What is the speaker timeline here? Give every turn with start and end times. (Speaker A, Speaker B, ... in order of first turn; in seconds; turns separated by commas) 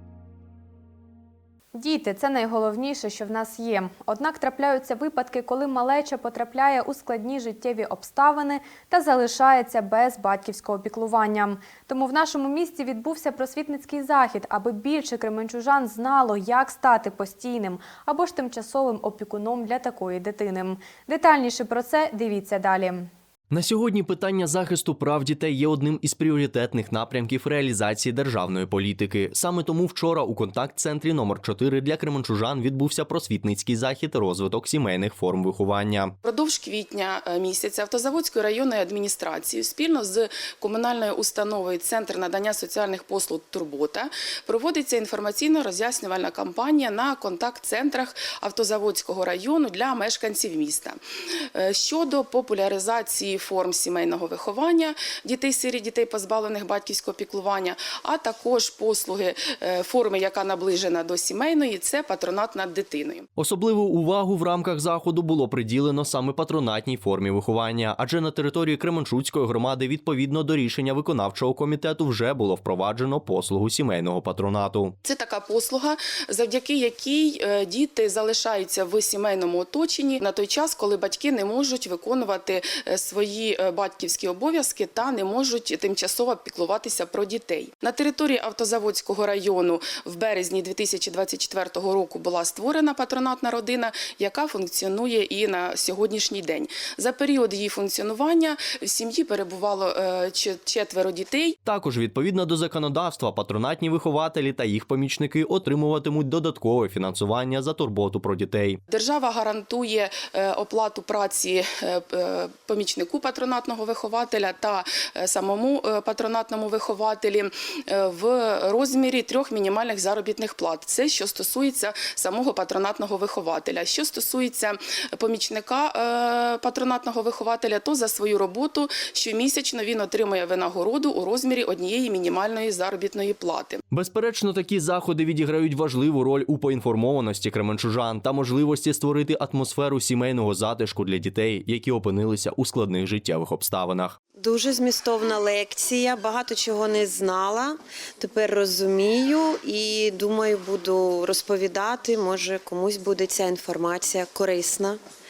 Speaker A: 1.7-23.1, Speaker B: 23.5-36.1, Speaker C: 36.2-51.0, Speaker C: 51.5-63.3, Speaker B: 63.4-75.0, Speaker C: 75.0-101.6, Speaker B: 101.7-108.8, Speaker C: 108.9-133.8, Speaker B: 133.9-144.2, Speaker D: 144.4-155.0